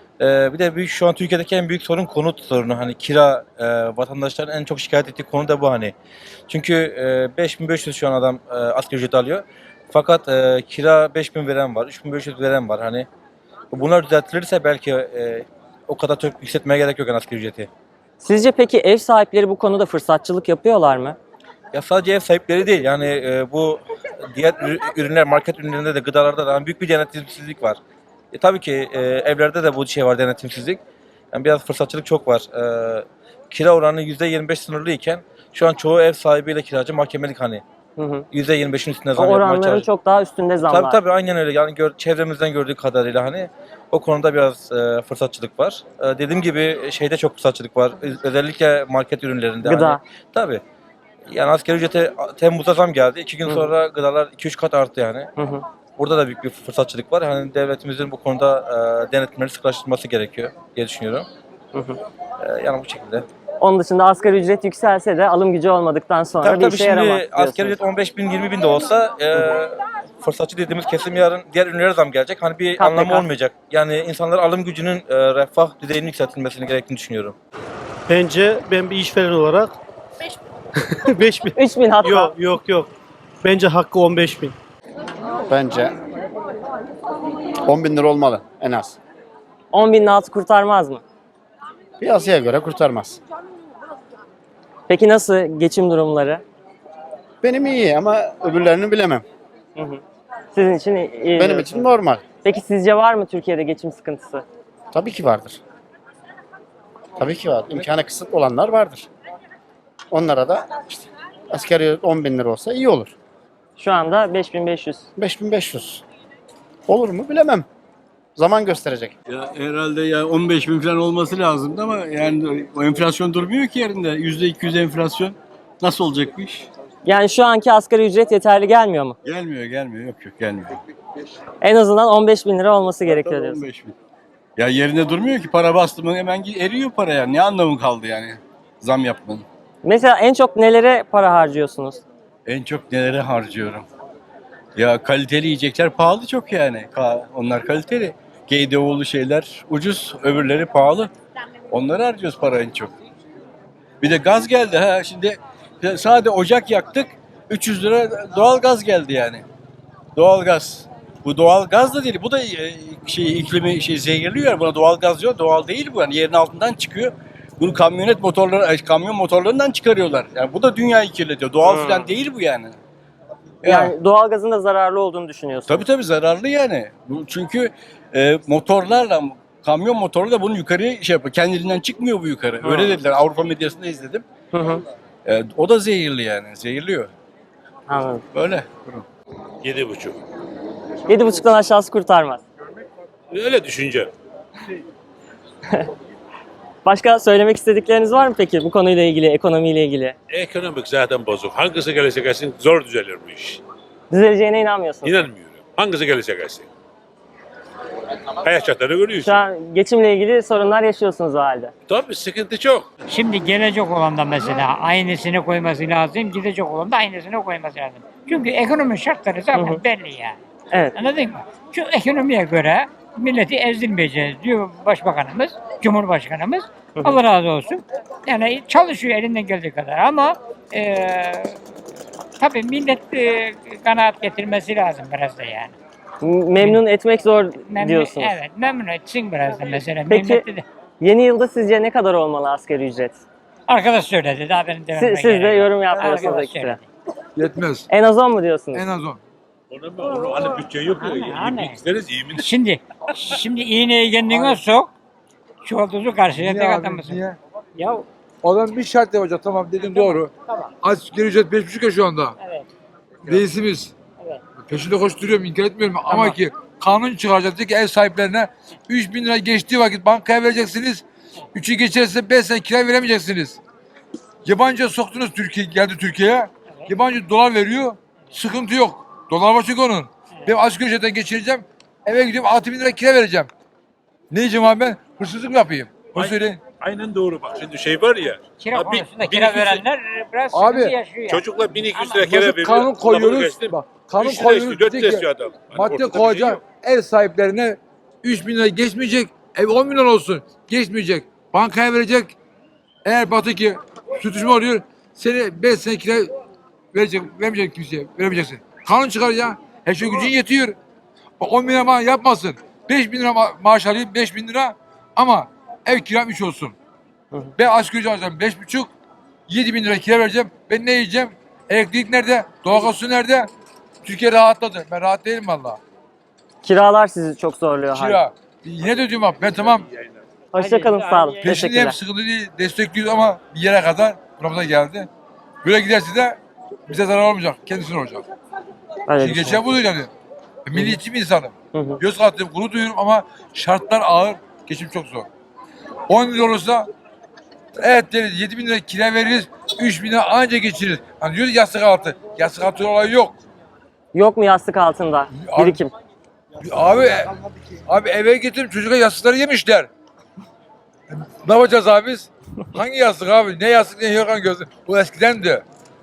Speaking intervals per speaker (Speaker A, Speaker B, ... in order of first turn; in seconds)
Speaker A: 0.2-5.9, 6.5-13.1, 13.7-17.7, 21.7-23.8, 24.3-27.8, 28.3-30.8, 31.3-37.6, 38.3-39.9, 40.6-50.6, 51.3-55.3, 56.0-61.3, 62.4-63.2, 66.4-77.3
Speaker B: 18.2-21.2, 38.0-38.3, 39.1-41.0, 49.6-50.0, 53.5-53.7, 55.4-55.6, 63.6-67.8, 72.8-73.3, 81.5-82.3, 89.7-91.0, 94.9-96.4, 99.8-100.0, 100.5-101.8, 102.4-104.4, 113.8-115.1, 127.0-129.2, 131.6-133.6, 139.8-142.0, 171.6-172.1, 173.6-175.8, 182.6-182.9, 184.5-184.8, 187.9-188.2, 191.1-192.4, 196.8-200.1, 204.1-205.2, 209.2-211.7, 219.5-219.8, 236.2-238.3, 240.1-240.4, 241.0-243.2, 244.9-246.8, 247.9-248.8, 326.6-328.2, 330.5-331.9, 339.1-339.7, 341.7-342.0, 354.1-355.9
Speaker C: 78.1-79.7, 80.9-82.9, 83.4-84.5
Speaker D: 85.5-85.9, 87.7-89.0, 92.0-93.2, 97.4-99.2, 101.3-102.2, 104.9-105.6, 107.2-109.1, 110.1-113.1, 115.2-116.0, 116.9-117.7, 118.3-119.1
Speaker E: 119.3-126.7, 129.2-130.8, 133.0-133.9, 134.6-139.4, 142.4-143.9, 144.8-151.1, 151.7-152.9, 154.0-159.4, 160.2-172.8, 173.6-173.9, 175.7-184.2, 185.2-187.1, 188.3-189.0
Speaker F: 189.6-190.2, 193.3-194.1, 200.3-203.6, 205.0-206.7, 208.4-209.4, 211.9-212.9, 249.7-252.5, 286.1-289.8, 291.3-296.6
Speaker G: 213.1-220.4, 220.9-231.6, 232.4-235.7, 237.7-240.6, 243.7-246.8, 251.0-251.8, 252.4-254.9, 255.6-257.2, 257.8-258.1, 259.8-260.6, 266.1-266.4, 288.6-292.3, 330.6-331.5
Speaker H: 247.4-247.8, 248.7-249.2, 256.4-257.4, 258.4-260.3, 260.8-262.3, 263.2-263.9, 264.7-273.6, 274.4-283.5, 284.3-286.6, 290.5-290.9, 292.2-302.3, 303.0-306.3, 306.9-310.8, 311.4-316.7, 317.6-318.9, 319.5-323.5, 324.0-325.8, 327.9-329.8, 331.4-335.1, 335.6-336.4, 336.9-338.2, 339.2-340.1, 340.7-345.3, 346.1-346.9, 347.8-353.4, 355.3-355.8, 356.6-357.3, 357.9-359.9, 361.1-365.6